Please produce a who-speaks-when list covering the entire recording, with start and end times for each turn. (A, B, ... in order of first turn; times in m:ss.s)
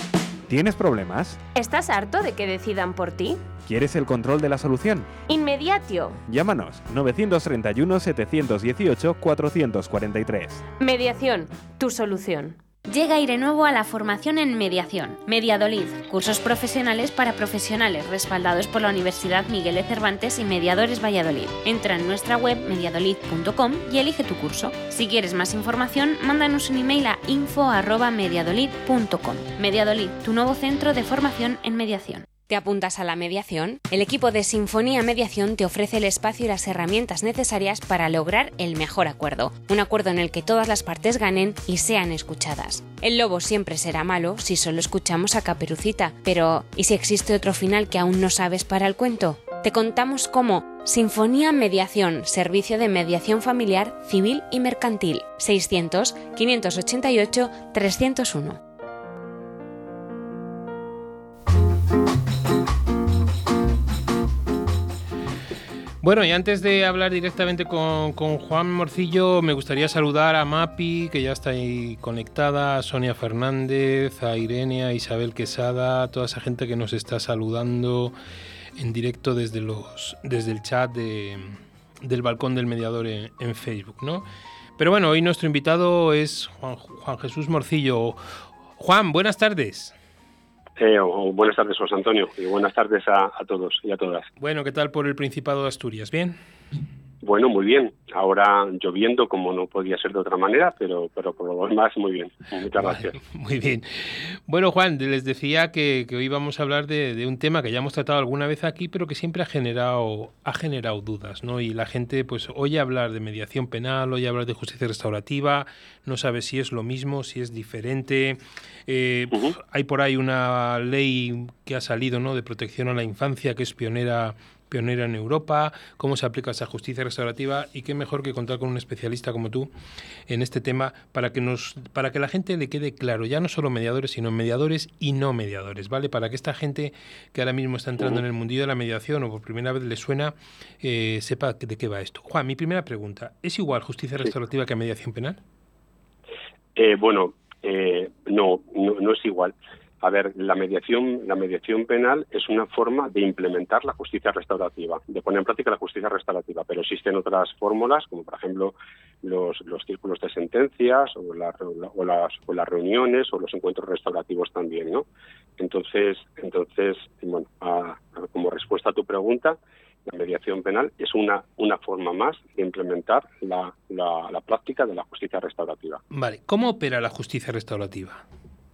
0:00.5-0:01.4 A
0:01.5-0:03.4 B
0:03.6-0:05.1 A
0:05.3-0:06.2 B
0:06.3-0:10.6 A
0:10.8-0:12.6 B
0:12.9-0:58.6 C
1:06.0-1:18.1 D
1:18.8-1:24.2 D
1:24.8-1:28.2 D
1:28.8-1:29.9 D
1:30.8-1:34.3 E
1:34.4-1:36.4 D
1:37.2-1:43.1 E
1:42.8-2:09.7 D
2:10.3-2:25.4 D
2:26.8-2:45.0 E
2:45.6-2:56.0 E
2:56.1-2:58.2 D